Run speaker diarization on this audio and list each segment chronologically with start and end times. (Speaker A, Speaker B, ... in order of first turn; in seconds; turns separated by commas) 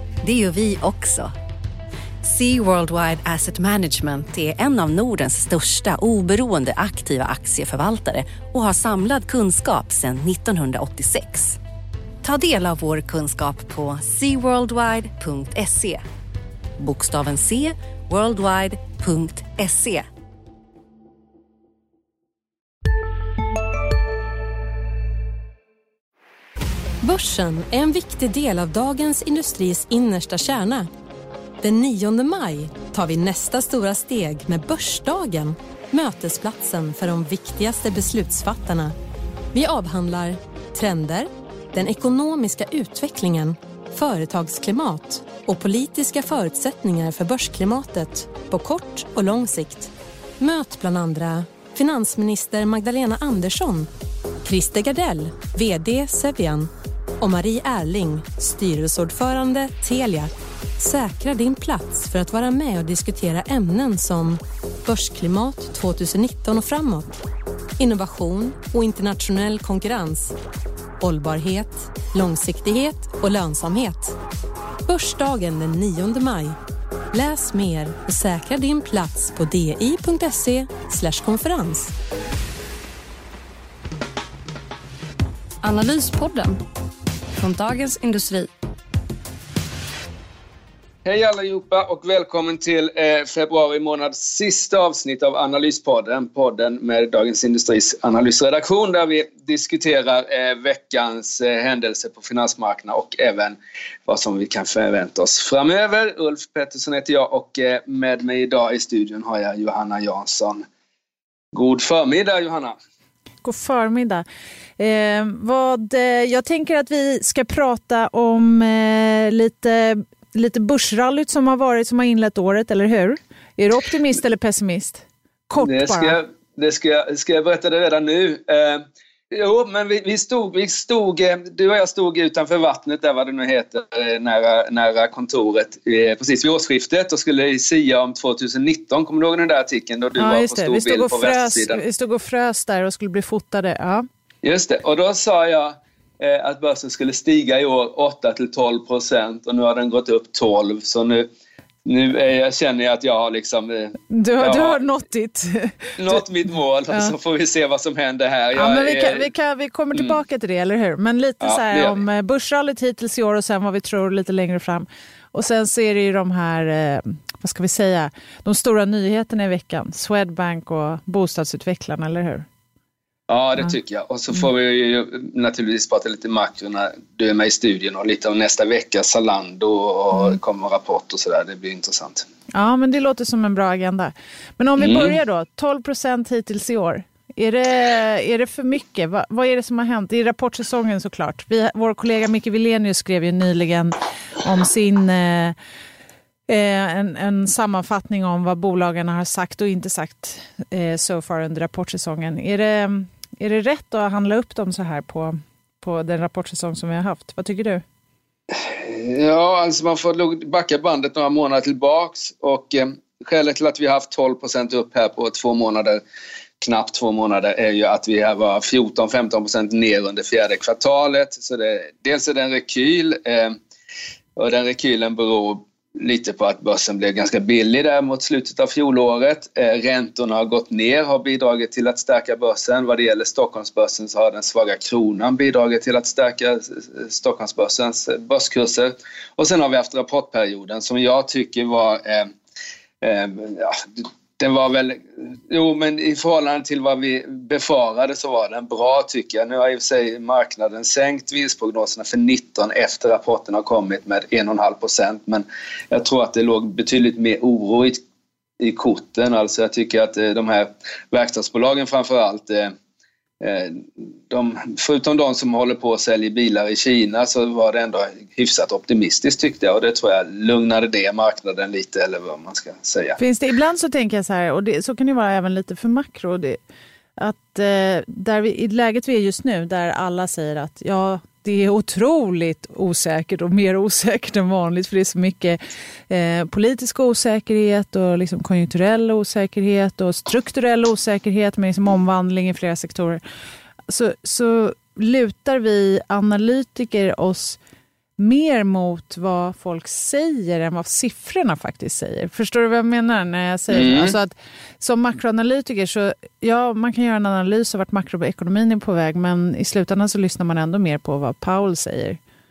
Speaker A: 0.2-1.3, Speaker A: 2.2-11.6, Speaker A: 12.2-16.0, Speaker A: 16.8-20.1, Speaker B: 27.0-30.9, Speaker B: 31.6-38.9, Speaker B: 39.5-53.9, Speaker B: 54.4-67.1, Speaker B: 67.8-70.3, Speaker B: 71.0-74.2, Speaker B: 74.8-76.5, Speaker B: 77.1-81.9, Speaker C: 85.6-86.6, Speaker C: 87.4-88.5, Speaker D: 91.0-110.6, Speaker D: 111.5-112.8, Speaker E: 113.4-114.2, Speaker E: 114.8-126.2, Speaker D: 125.6-141.8, Speaker E: 140.2-144.1, Speaker D: 144.4-151.3, Speaker D: 151.8-154.8, Speaker E: 154.1-156.2, Speaker D: 156.0-159.3, Speaker E: 158.6-172.4, Speaker D: 161.4-162.0, Speaker D: 173.3-182.2, Speaker E: 182.5-195.6, Speaker D: 184.8-185.1, Speaker E: 196.5-207.8, Speaker D: 208.6-216.0, Speaker D: 216.6-223.6, Speaker D: 224.3-242.3, Speaker D: 243.0-258.0, Speaker D: 258.6-262.7, Speaker D: 263.4-273.2, Speaker E: 273.2-276.6, Speaker E: 277.2-293.2, Speaker E: 293.9-297.6, Speaker E: 298.2-312.2, Speaker D: 303.7-304.1